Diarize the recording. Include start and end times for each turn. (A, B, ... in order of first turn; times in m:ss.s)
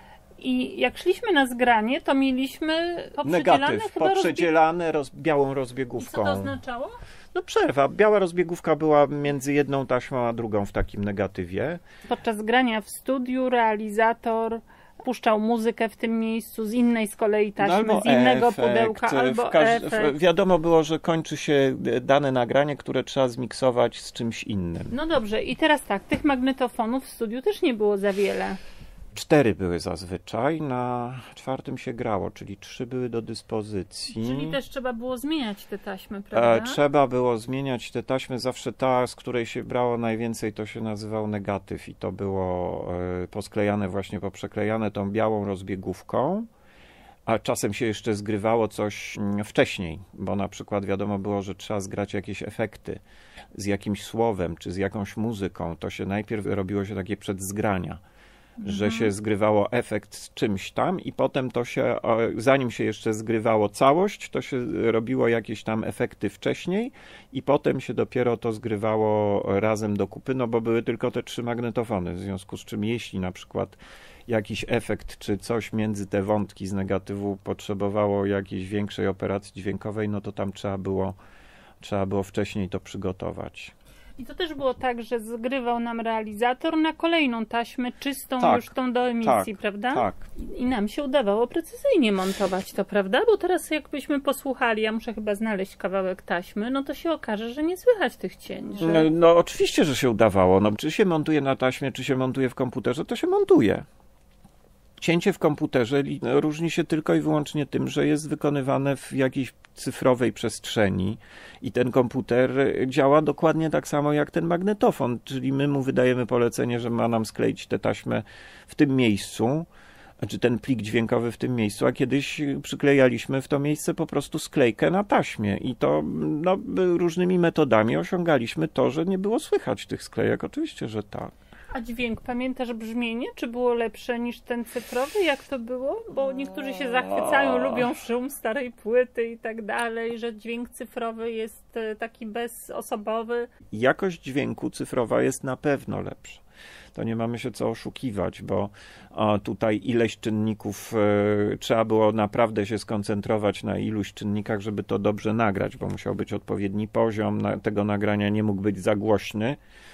0:00.4-0:04.5 A
0:03.2-0:06.5 B
0:06.0-0:07.0 A
0:07.3-0:11.8 B
0:12.1-0:20.1 A
0:17.6-0:24.9 B
0:24.9-0:28.6 A
0:29.1-0:34.6 B
0:34.1-0:36.8 A
0:36.3-0:46.5 B
0:47.2-0:53.0 B
0:53.5-0:58.0 B
0:58.6-0:59.1 A
0:58.6-1:21.2 B
1:21.8-1:23.7 B
1:24.2-1:39.1 A
1:28.4-1:30.2 B
1:38.8-1:43.8 B
1:45.0-1:59.7 B
2:00.2-2:11.3 B
2:11.7-2:23.5 A
2:17.2-2:17.8 B
2:23.7-2:26.4 B
2:26.9-2:39.6 B